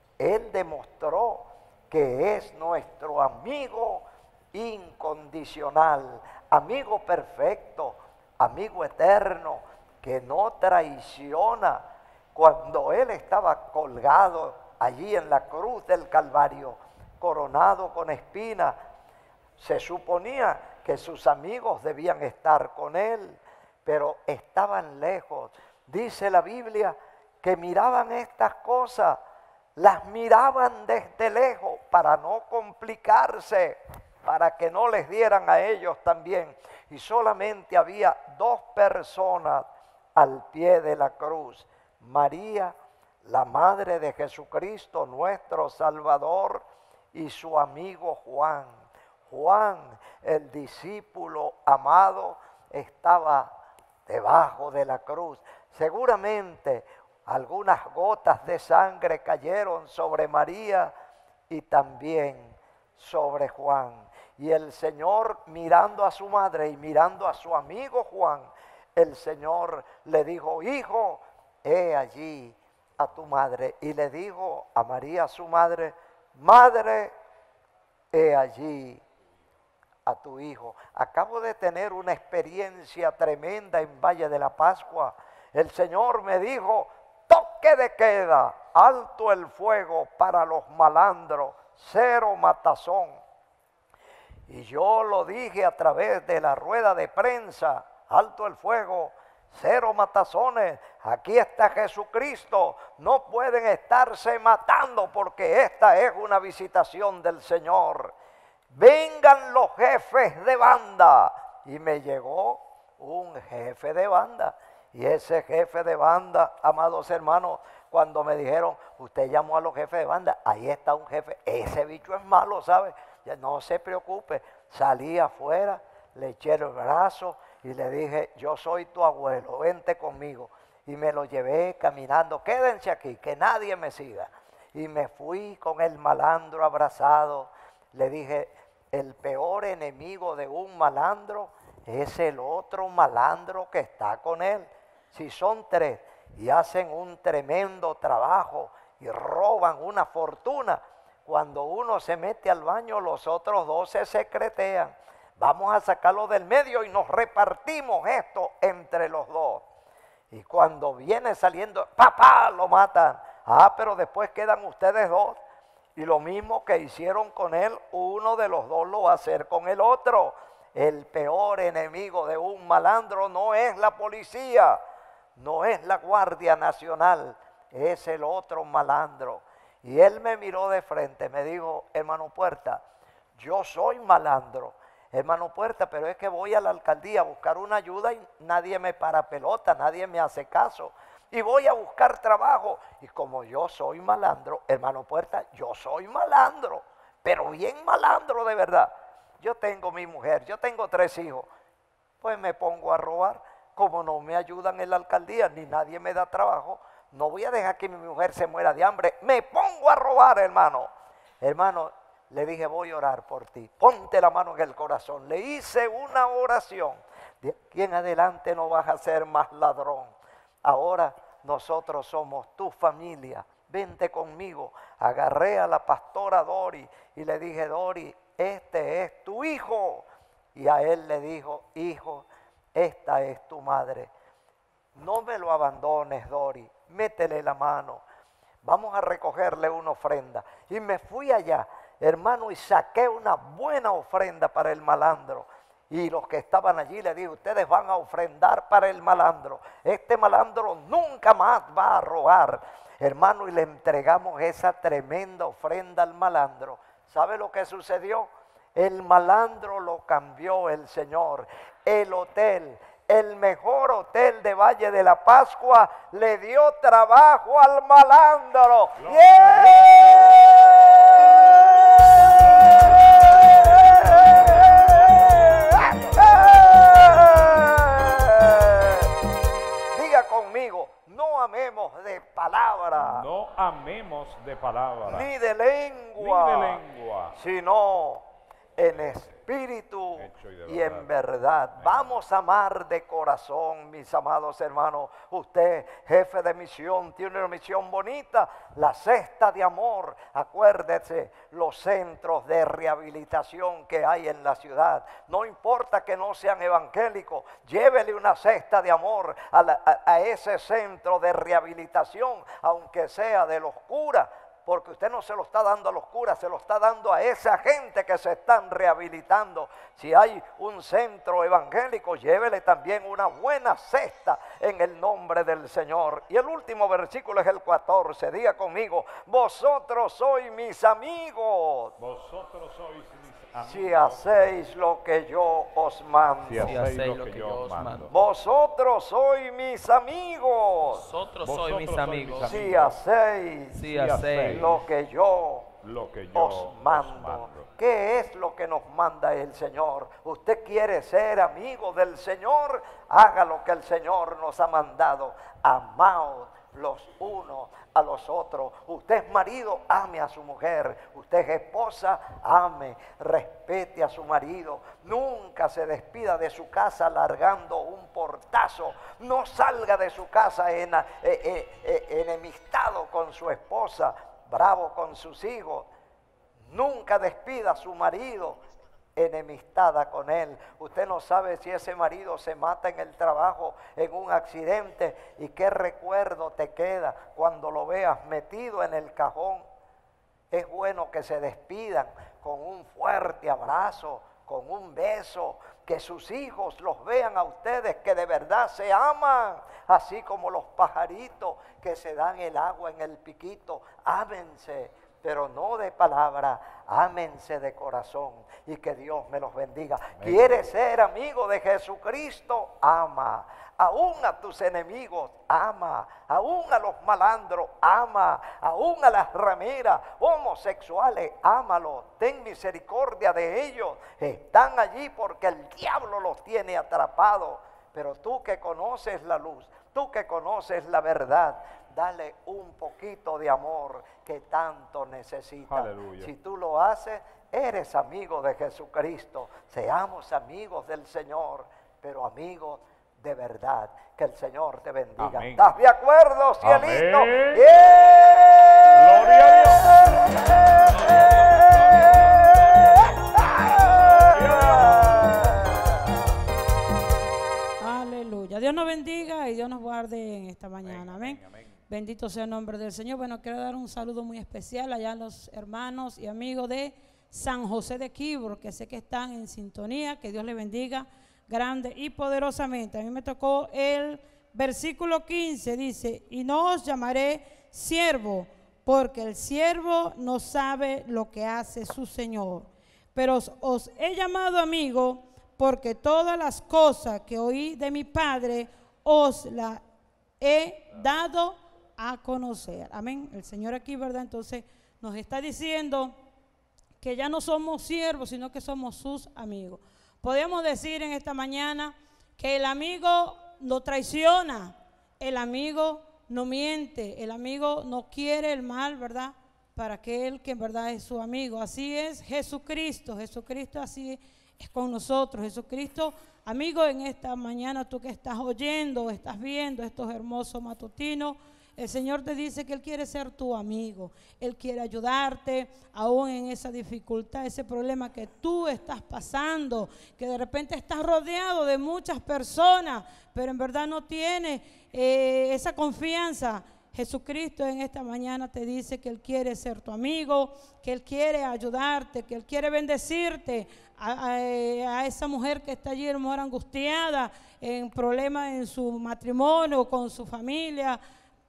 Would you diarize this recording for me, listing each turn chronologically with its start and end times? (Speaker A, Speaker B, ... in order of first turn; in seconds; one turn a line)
Speaker A: 0.2-11.8
Speaker A: 12.3-18.7
Speaker A: 19.6-29.2
Speaker A: 29.8-39.6
Speaker A: 40.1-42.7
Speaker A: 43.2-48.7
Speaker A: 49.3-53.5
Speaker A: 54.1-60.9
Speaker A: 61.5-77.1
Speaker A: 78.1-79.0
Speaker A: 80.0-93.2
Speaker A: 94.5-108.1
Speaker A: 108.7-159.6
Speaker A: 160.3-165.4
Speaker A: 165.9-174.8
Speaker A: 175.4-182.8
Speaker A: 183.4-201.5
Speaker A: 202.2-210.9
Speaker A: 211.4-230.0
Speaker A: 230.6-234.1
Speaker A: 235.0-238.0
Speaker A: 238.6-270.6
Speaker B: 269.0-270.4
Speaker B: 272.4-277.0
Speaker A: 273.6-279.1
Speaker A: 279.9-283.2
Speaker B: 283.0-285.3
Speaker A: 285.0-286.8
Speaker B: 286.2-287.4
Speaker A: 287.3-288.2
Speaker A: 288.8-331.9
Speaker B: 288.8-289.4
Speaker B: 290.2-291.1
Speaker B: 291.8-292.1
Speaker B: 332.0-334.6
Speaker A: 333.6-336.8
Speaker B: 336.5-338.1
Speaker C: 336.6-338.1
Speaker A: 338.1-341.0
Speaker C: 341.0-342.6
Speaker B: 341.4-343.0
Speaker A: 342.4-343.8
Speaker C: 343.7-344.8
Speaker B: 343.8-344.8
Speaker A: 344.4-345.7
Speaker B: 345.8-347.7
Speaker A: 346.3-375.9
Speaker A: 376.7-378.6
Speaker A: 379.1-389.6
Speaker A: 390.5-449.3
Speaker B: 410.1-410.6
Speaker B: 435.7-436.3
Speaker B: 445.2-445.7
Speaker B: 446.6-447.6
Speaker B: 448.9-452.4
Speaker B: 453.0-456.0
Speaker A: 454.2-455.6
Speaker D: 457.8-489.8
Speaker B: 460.8-461.8
Speaker D: 490.4-496.1
Speaker D: 497.0-551.0